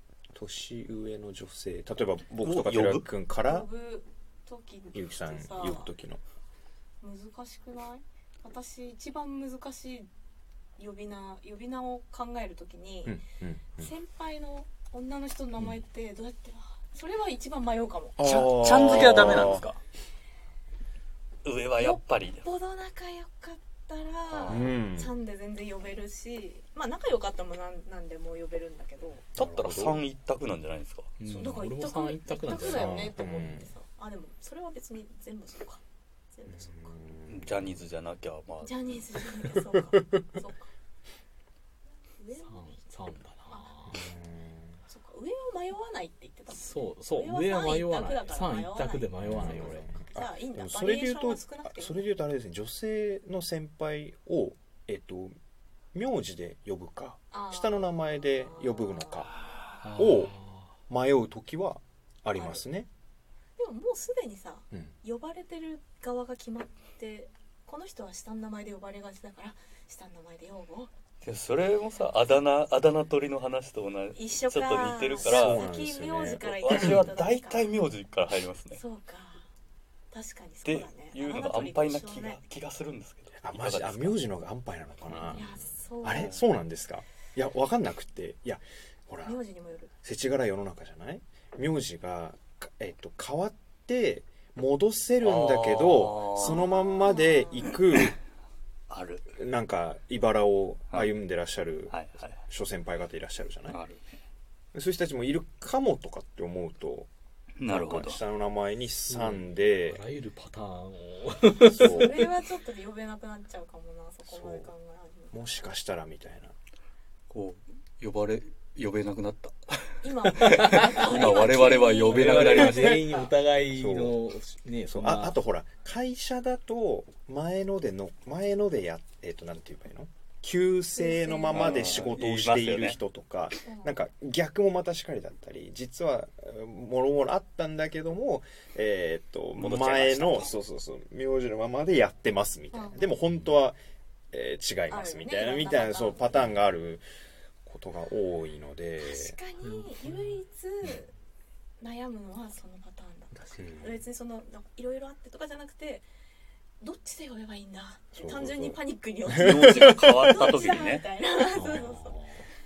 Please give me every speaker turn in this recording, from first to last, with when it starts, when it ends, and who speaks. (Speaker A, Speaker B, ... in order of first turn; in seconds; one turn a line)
Speaker A: 0.3-3.7
Speaker B: 2.4-3.1
Speaker C: 3.4-5.9
Speaker A: 4.9-6.2
Speaker C: 7.0-10.1
Speaker C: 10.8-13.2
Speaker A: 13.1-13.9
Speaker C: 13.8-18.4
Speaker A: 18.2-19.7
Speaker B: 18.2-19.8
Speaker B: 21.4-22.5
Speaker C: 21.8-29.3
Speaker B: 24.3-24.7
Speaker A: 24.5-25.1
Speaker A: 29.4-30.1
Speaker B: 29.4-31.1
Speaker D: 31.2-33.2
Speaker C: 31.3-35.8
Speaker A: 32.7-33.7
Speaker C: 36.3-36.9
Speaker A: 36.5-37.8
Speaker B: 37.3-39.3
Speaker C: 38.6-40.7
Speaker A: 39.6-40.2
Speaker C: 42.2-42.8
Speaker D: 42.5-44.0
Speaker A: 43.9-44.8
Speaker C: 44.9-52.1
Speaker D: 46.5-49.9
Speaker A: 49.2-55.4
Speaker A: 55.9-59.3
Speaker C: 57.3-59.2
Speaker D: 59.8-60.6
Speaker A: 60.0-60.4
Speaker A: 60.9-62.9
Speaker C: 62.4-62.6
Speaker C: 63.6-70.9
Speaker B: 71.2-75.6
Speaker C: 74.1-77.8
Speaker A: 75.2-77.1
Speaker B: 76.5-78.8
Speaker C: 78.7-79.5
Speaker C: 80.1-82.4
Speaker B: 80.7-84.2
Speaker A: 83.4-85.5
Speaker D: 85.1-85.7
Speaker C: 85.3-86.3
Speaker A: 86.0-89.4
Speaker C: 89.2-89.9
Speaker A: 90.0-98.2
Speaker B: 95.2-96.7
Speaker C: 96.4-97.8
Speaker B: 98.9-99.3
Speaker A: 99.3-103.8
Speaker B: 101.9-102.4
Speaker B: 103.7-104.0
Speaker A: 104.7-107.1
Speaker B: 107.6-108.2
Speaker A: 107.7-110.0
Speaker D: 109.1-112.1
Speaker A: 111.7-112.2
Speaker C: 111.8-115.7
Speaker A: 114.3-114.7
Speaker A: 115.3-116.5
Speaker B: 117.3-123.2
Speaker C: 120.0-122.9
Speaker D: 120.5-120.9
Speaker D: 122.1-125.4
Speaker A: 123.7-124.2
Speaker A: 124.9-143.8
Speaker C: 130.9-132.1
Speaker B: 131.5-133.0
Speaker C: 133.7-134.0
Speaker B: 139.6-140.6
Speaker C: 142.7-143.0
Speaker A: 144.3-147.1
Speaker C: 144.9-146.5
Speaker A: 147.6-149.4
Speaker C: 149.0-151.1
Speaker C: 151.8-156.1
Speaker A: 153.6-154.0
Speaker C: 156.8-162.2
Speaker A: 158.2-160.3
Speaker B: 159.3-161.1
Speaker D: 161.5-162.5